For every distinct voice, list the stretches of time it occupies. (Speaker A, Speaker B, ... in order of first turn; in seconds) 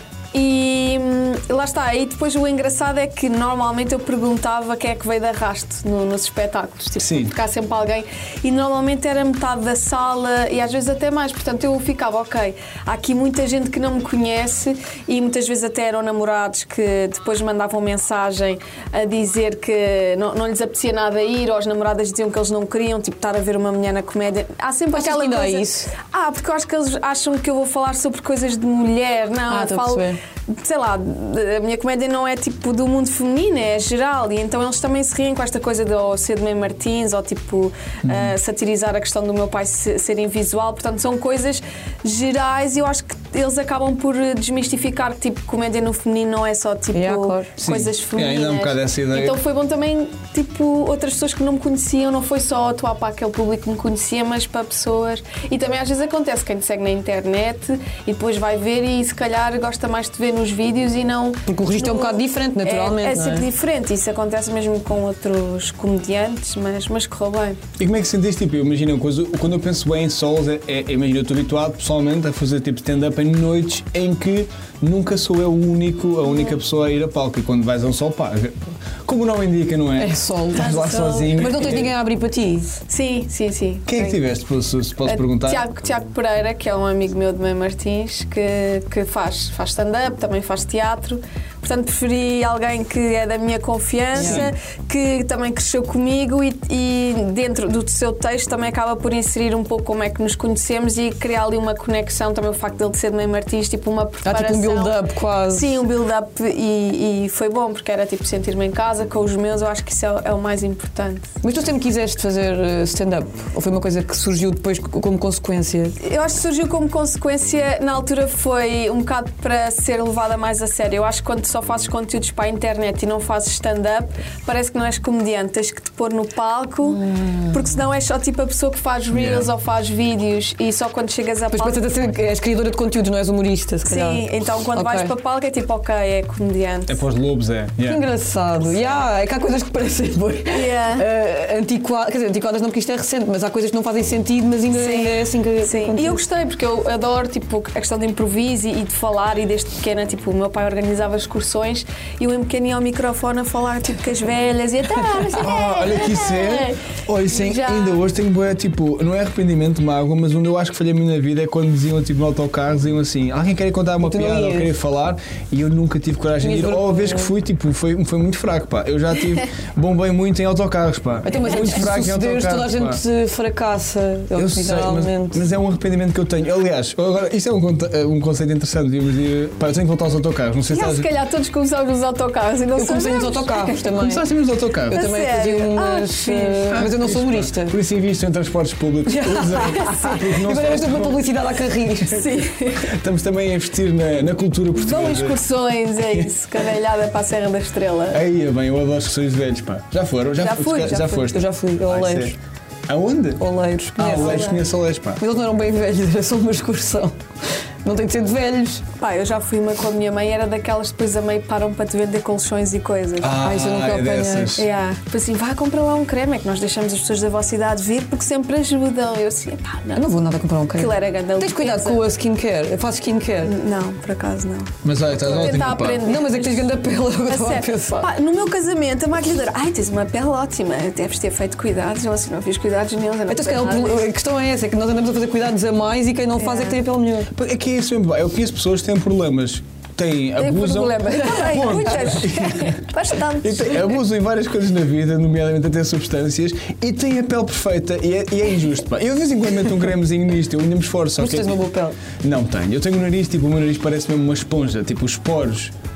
Speaker A: 0.3-67.6, 80.5-81.4, 82.9-84.2, 85.0-111.3, 116.0-131.8, 133.8-137.0, 140.5-141.1, 144.7-158.0, 180.7-183.9, 184.9-186.9, 189.8-190.2, 192.1-192.9, 194.8-198.2, 200.4-201.3, 204.1-204.6, 209.0-213.4, 214.6-220.0, 220.8-222.1, 223.4-226.7, 227.3-234.1, 236.4-236.7, 240.4-244.0
Speaker B: 7.0-7.3, 38.0-38.3, 47.6-49.4, 67.8-81.9, 83.9-85.6, 94.2-94.5, 129.1-129.5, 136.9-138.0, 155.4-173.0, 174.4-181.1, 184.0-185.0, 186.7-191.3, 192.8-195.4, 198.1-202.3, 202.9-203.4, 204.0-205.2, 213.2-214.7, 224.8-226.1, 237.3-251.6, 252.2-255.7
Speaker C: 24.9-25.9, 29.5-30.2, 46.9-47.5, 61.5-63.5, 80.0-82.7, 94.2-94.5, 104.2-105.8, 111.4-116.0, 126.9-127.5, 131.5-135.1, 137.8-146.2, 164.0-164.7, 166.4-167.3, 171.2-175.4, 182.8-184.2, 184.9-187.8, 189.1-192.2, 201.3-202.4, 203.4-204.6, 205.2-207.2, 207.8-208.8, 213.4-214.6, 219.9-223.5, 226.0-228.1, 233.3-237.3, 251.2-252.0